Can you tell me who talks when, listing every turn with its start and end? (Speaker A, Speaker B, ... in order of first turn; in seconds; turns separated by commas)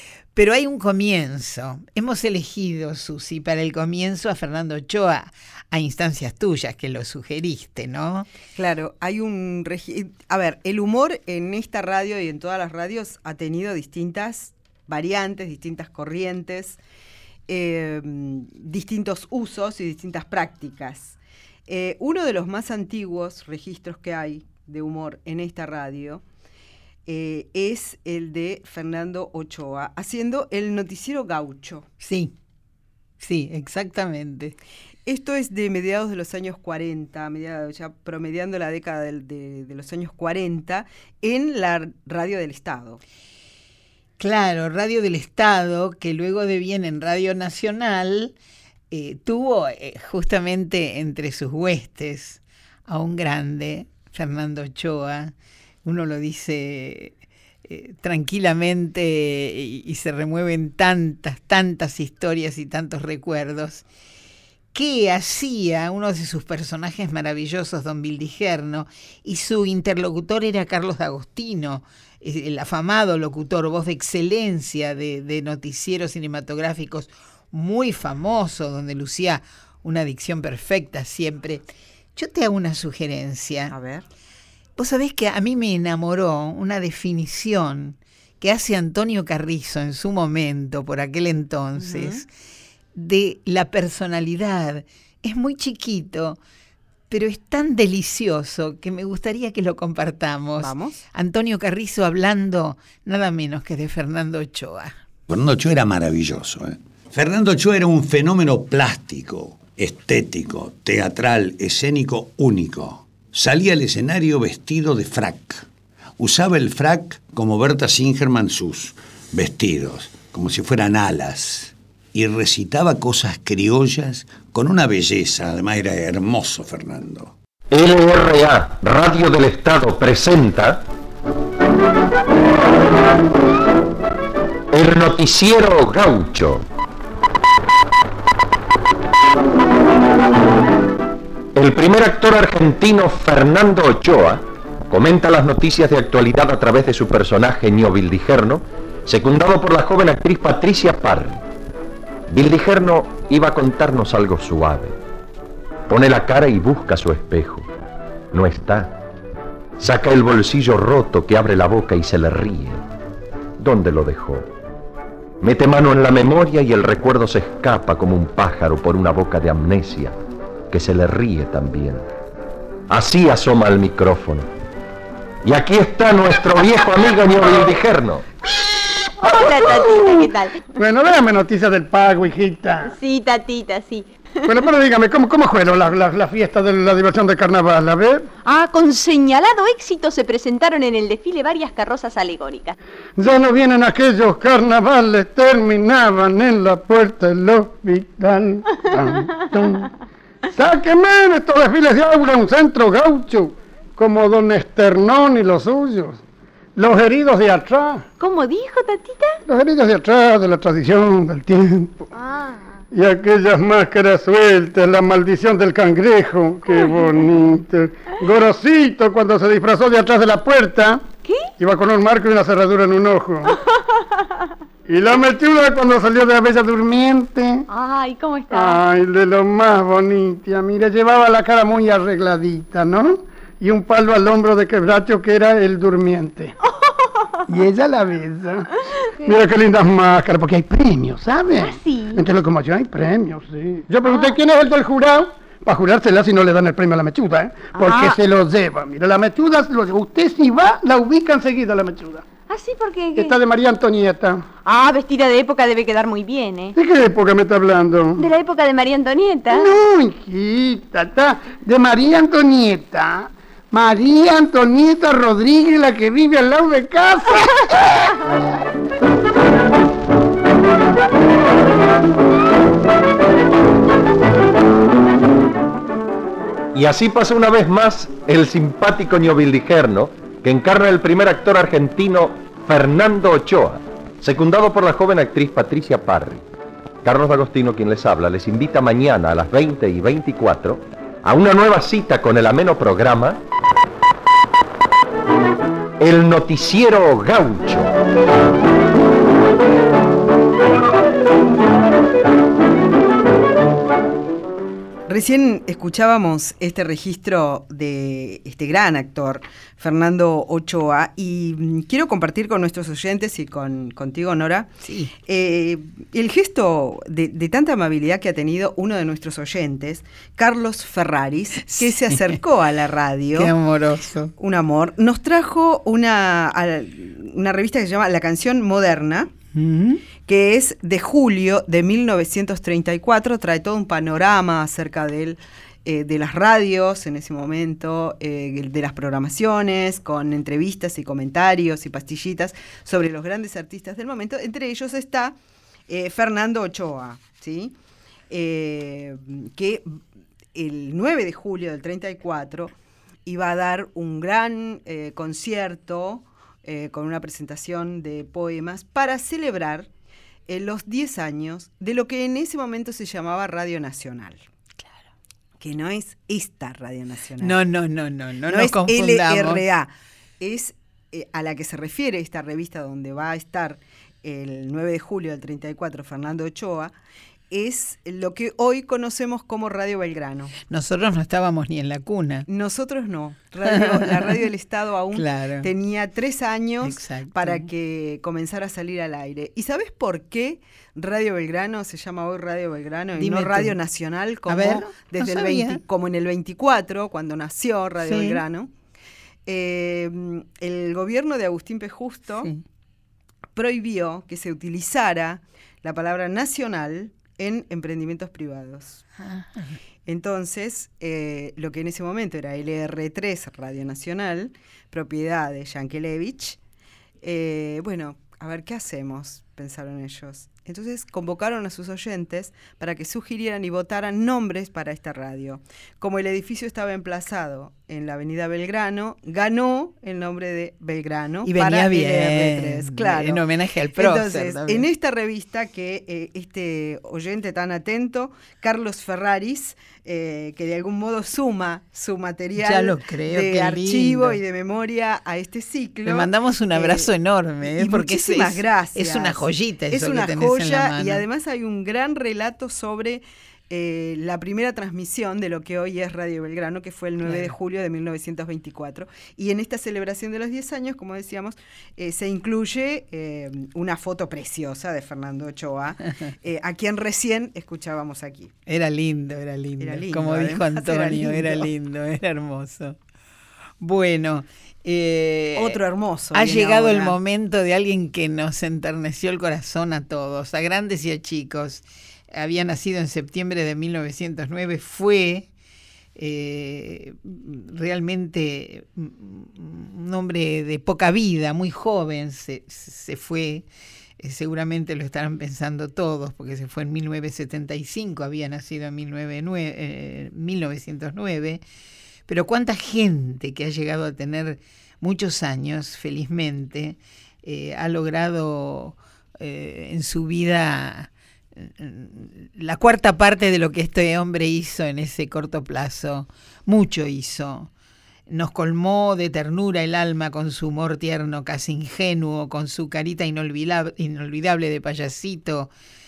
Speaker A: 0.3-8.3, Speaker B: 8.6-16.8, Speaker B: 17.5-26.2, Speaker B: 27.1-31.9, Speaker A: 32.0-32.3, Speaker A: 33.2-34.6, Speaker B: 35.0-43.0, Speaker A: 44.2-48.3, Speaker A: 48.9-55.3, Speaker A: 55.8-57.1, Speaker A: 57.7-63.8, Speaker A: 64.7-83.7, Speaker B: 83.7-84.0, Speaker A: 84.8-92.3, Speaker B: 91.8-92.2, Speaker A: 92.9-96.4, Speaker A: 97.1-104.9, Speaker B: 100.6-101.0, Speaker C: 105.3-115.7, Speaker C: 116.2-127.3, Speaker D: 127.7-130.8, Speaker D: 134.7-136.6, Speaker D: 141.6-151.4, Speaker D: 152.3-155.0, Speaker D: 155.9-157.7, Speaker D: 158.3-158.9, Speaker D: 159.8-162.8, Speaker D: 163.6-164.5, Speaker D: 165.4-170.2, Speaker D: 170.7-172.1, Speaker D: 172.9-174.5, Speaker D: 175.4-178.2, Speaker E: 179.2-180.7, Speaker F: 179.2-182.9, Speaker E: 182.8-184.5, Speaker F: 184.4-188.3, Speaker E: 188.4-192.8, Speaker F: 193.2-199.9, Speaker F: 200.6-206.2, Speaker F: 206.8-208.0, Speaker E: 208.2-209.4, Speaker F: 209.4-212.1, Speaker E: 212.1-212.8, Speaker F: 212.9-221.0, Speaker E: 221.2-221.5, Speaker F: 221.6-223.6, Speaker F: 224.8-227.6, Speaker E: 227.7-228.8, Speaker F: 228.5-236.5, Speaker E: 236.9-237.2, Speaker F: 237.5-238.7, Speaker F: 239.2-252.2, Speaker E: 241.6-242.2, Speaker E: 244.0-244.4, Speaker E: 247.7-248.2, Speaker E: 252.5-253.3, Speaker F: 253.1-254.4, Speaker E: 254.6-256.7, Speaker F: 256.7-258.2, Speaker E: 258.2-259.7, Speaker F: 259.5-267.9, Speaker D: 276.7-286.4, Speaker D: 287.0-293.4, Speaker D: 296.0-297.9, Speaker B: 305.1-314.7, Speaker A: 314.8-315.1, Speaker B: 315.2-323.5, Speaker A: 321.6-322.2, Speaker A: 323.3-324.3, Speaker B: 324.4-329.3, Speaker A: 329.5-330.0, Speaker B: 330.2-345.4, Speaker B: 345.9-347.7, Speaker B: 348.3-350.0, Speaker B: 350.5-352.7, Speaker B: 353.2-359.9, Speaker B: 360.5-364.4, Speaker B: 365.6-367.6, Speaker A: 367.4-369.6, Speaker B: 368.5-376.9, Speaker B: 377.5-380.5, Speaker A: 380.7-382.5, Speaker B: 382.5-398.7, Speaker A: 383.7-384.4, Speaker A: 385.1-385.7, Speaker A: 386.8-387.7, Speaker A: 393.2-393.8, Speaker A: 394.5-395.8, Speaker A: 398.0-398.4, Speaker B: 399.4-402.5, Speaker B: 403.5-409.0, Speaker A: 409.3-409.6, Speaker B: 410.1-416.6, Speaker B: 417.2-433.4, Speaker A: 431.4-434.9, Speaker B: 434.0-447.1, Speaker A: 442.6-444.4, Speaker A: 446.1-451.2, Speaker B: 447.7-468.5, Speaker A: 457.2-457.5, Speaker A: 468.7-472.9, Speaker B: 469.8-471.7, Speaker A: 473.8-475.8, Speaker B: 475.5-477.1, Speaker A: 476.3-485.5, Speaker A: 486.1-493.6, Speaker A: 494.2-501.6, Speaker A: 502.3-517.7, Speaker A: 518.3-525.7